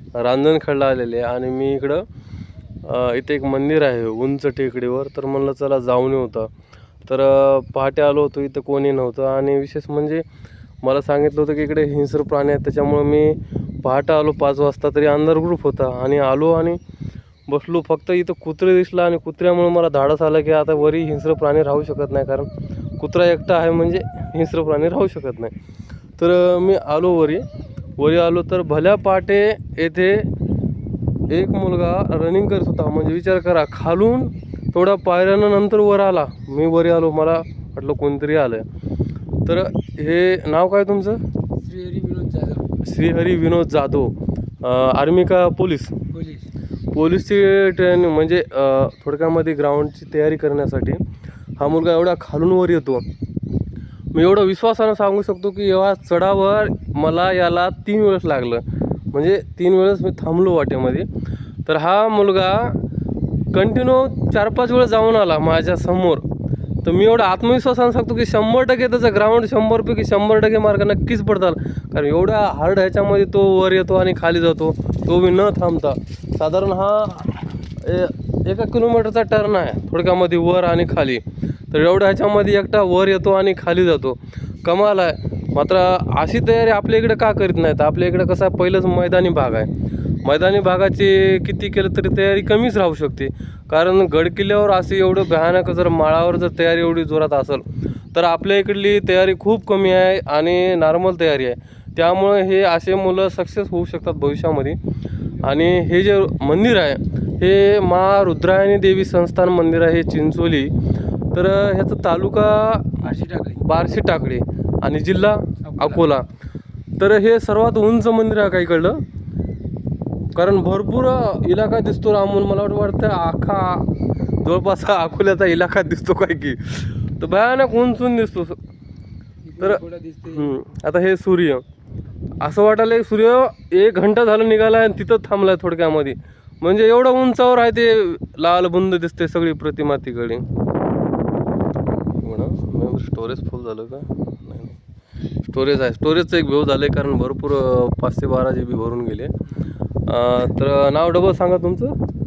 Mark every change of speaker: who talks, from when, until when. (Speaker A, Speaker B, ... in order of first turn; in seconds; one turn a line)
Speaker A: 0.1-2.0
Speaker A: 2.8-6.5
Speaker A: 7.0-10.2
Speaker A: 10.8-16.8
Speaker A: 17.5-25.5
Speaker A: 26.2-27.4
Speaker A: 28.0-30.3
Speaker A: 31.3-38.6
Speaker A: 39.5-41.2
Speaker B: 41.5-42.7
Speaker A: 42.8-46.0
Speaker B: 46.1-46.5
Speaker A: 46.9-51.0
Speaker A: 51.6-53.0
Speaker A: 54.1-61.1
Speaker A: 61.6-62.8
Speaker A: 63.5-66.2
Speaker A: 66.8-89.7
Speaker A: 90.2-104.8
Speaker A: 105.4-110.7
Speaker A: 111.3-116.3
Speaker B: 113.0-113.6
Speaker B: 115.6-116.0
Speaker A: 117.0-119.0
Speaker A: 120.3-123.9
Speaker A: 124.4-128.6
Speaker B: 129.4-130.5
Speaker A: 129.6-131.6
Speaker A: 132.4-140.4
Speaker A: 142.2-144.8
Speaker A: 145.4-149.3
Speaker A: 150.1-151.9